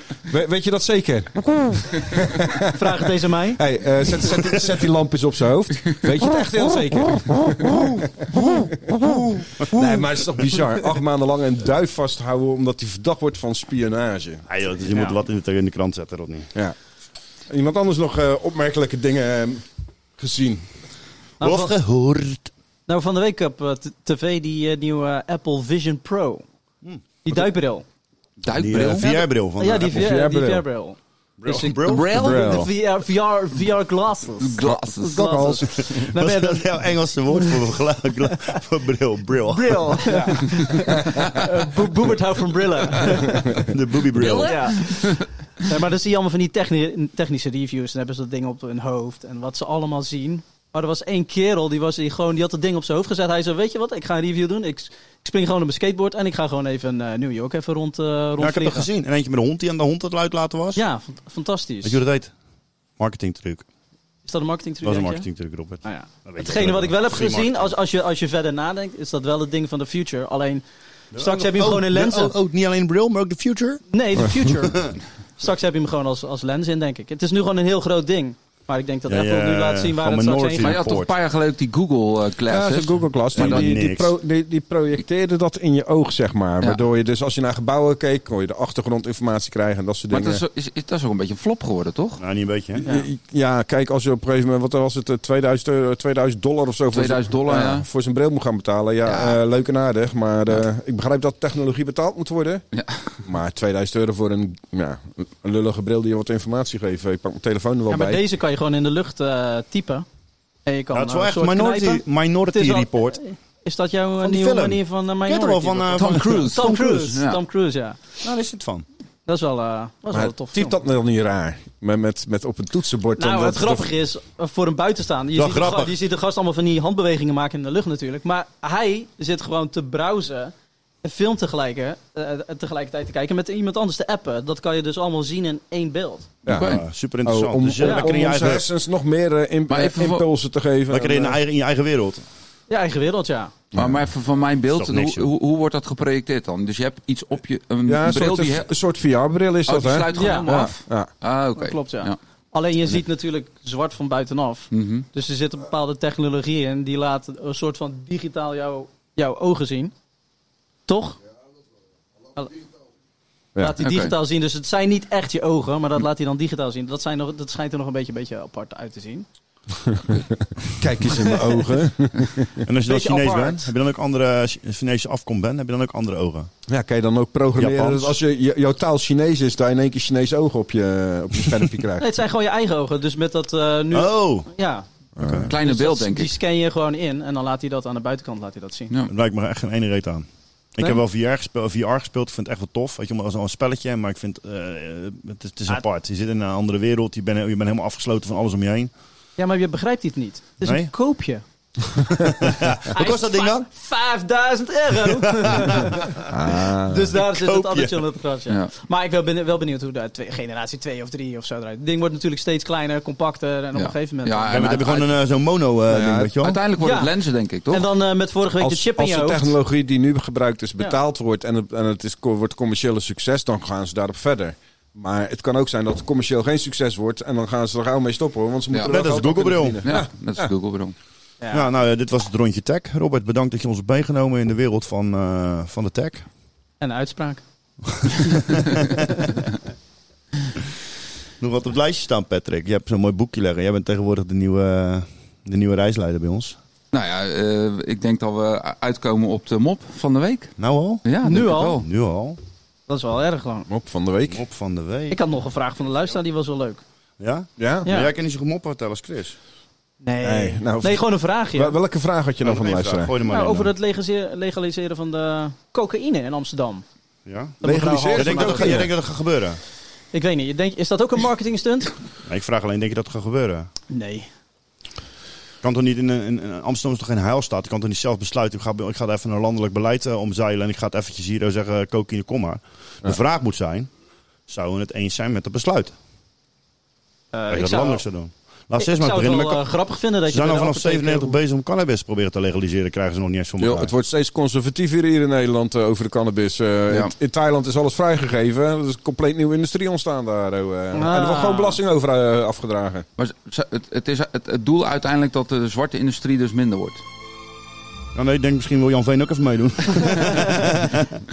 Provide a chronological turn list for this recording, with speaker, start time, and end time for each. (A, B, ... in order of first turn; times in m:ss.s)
0:00.3-0:02.8 A
0:02.7-0:03.6 B
0:03.6-0:14.4 A
0:14.5-0:16.5 C
0:17.5-0:19.6 A
0:20.2-0:20.7 A
0:21.4-0:21.8 B
0:21.4-0:22.5 C
0:22.9-0:26.4 B
0:26.8-0:27.4 C
0:27.2-0:27.8 B
0:28.4-0:29.2 D
0:28.5-0:30.1 C
0:29.6-0:36.7 B
0:29.8-0:30.6 A
0:31.4-0:32.1 C
0:31.9-0:32.7 D
0:32.1-0:32.7 A
0:34.4-0:35.4 D
0:34.6-0:35.9 A
0:35.8-0:40.1 C
0:39.5-0:43.7 B
0:40.1-0:41.2 A
0:43.7-0:44.7 C
0:44.2-0:45.2 D
0:44.4-0:58.9 B
0:58.4-1:00.8 C
1:00.8-1:02.0 B
1:01.8-1:02.3 C
1:03.0-1:03.7 C
1:04.3-1:05.3 B
1:04.8-1:07.7 C
1:05.8-1:10.6 B
1:11.1-1:13.8 C
1:11.2-1:12.3 B
1:13.9-1:20.8 B
1:19.1-1:21.1 C
1:20.6-1:23.7 D
1:22.5-1:30.4 A
1:23.3-1:24.2 C
1:30.1-1:32.2 D
1:32.2-1:32.9 C
1:32.8-1:42.6 A
1:36.9-1:37.9 D
1:39.0-1:39.4 D
1:42.7-1:43.2 D
1:43.2-1:48.2 A
1:47.9-1:50.0 B
1:50.7-1:58.0 B
1:50.9-1:53.2 C
1:54.2-1:57.2 C
1:56.0-1:57.4 D
1:58.2-1:58.9 C
1:59.3-2:00.8 B
2:00.1-2:03.9 A
2:03.2-2:16.3 B
2:05.4-2:06.0 C
2:16.5-2:21.4 A
2:16.5-2:18.7 C
2:16.5-2:16.8 D
2:17.8-2:18.2 B
2:19.7-2:20.3 D
2:20.9-2:22.2 C
2:22.7-2:23.5 B
2:23.8-2:28.7 D
2:24.7-2:25.3 C
2:27.9-2:31.1 A
2:29.7-2:32.2 D
2:30.1-2:30.6 B
2:31.6-2:39.9 B
2:34.7-2:35.1 D
2:40.9-2:41.2 B
2:43.6-2:49.3 B
2:43.8-2:44.1 D
2:50.6-2:52.6 A
2:51.2-2:51.6 B
2:52.6-2:56.5 C
2:52.9-2:53.7 B
2:56.7-3:02.1 A
2:57.6-2:58.2 C
3:02.0-3:04.9 B
3:03.9-3:04.5 C
3:05.2-3:05.5 A
3:05.2-3:05.5 C
3:05.5-3:06.3 D
3:05.6-3:08.9 B
3:09.1-3:18.9 C
3:19.4-3:21.4 B
3:20.6-3:20.9 C
3:22.1-3:23.7 C
3:22.9-3:26.1 B
3:25.1-3:28.1 C
3:26.3-3:27.1 A
3:26.9-3:34.6 B
3:33.8-3:35.1 D
3:34.5-3:36.6 C
3:35.9-3:36.3 A
3:36.4-3:37.9 D
3:36.8-3:37.1 B
3:37.7-3:39.6 B
3:38.6-3:50.5 A
3:48.7-3:49.0 D
3:48.8-3:49.8 C
3:49.8-3:51.0 D
3:51.4-3:51.7 B
3:51.5-3:56.3 C
3:56.8-3:57.4 B
3:58.0-3:58.7 C
4:01.4-4:06.6 C
4:06.9-4:10.5 D
4:10.6-4:12.4 C
4:11.0-4:11.9 D
4:11.2-4:11.8 B
4:12.9-4:13.7 B
4:13.7-4:14.4 A
4:14.3-4:15.2 C
4:15.1-4:16.8 B
4:17.2-4:19.4 C
4:17.6-4:17.9 A
4:17.8-4:18.1 B
4:20.0-4:21.8 B
4:20.2-4:23.1 A
4:22.4-4:23.7 C
4:23.3-4:26.8 B
4:27.3-4:27.6 C
4:27.6-4:28.8 B
4:27.6-4:28.9 A
4:28.1-4:29.6 C
4:30.1-4:31.9 B
4:32.3-4:33.7 C
4:33.9-4:34.3 B
4:35.6-4:43.9 C
4:44.5-4:46.0 C
4:47.3-4:48.0 B
4:47.5-4:49.6 C
4:48.8-4:51.4 B
4:50.3-4:53.9 C
4:53.6-5:03.0 A
5:00.9-5:01.8 B
5:03.2-5:07.0 D
5:08.1-5:11.1 C
5:10.2-5:10.4 B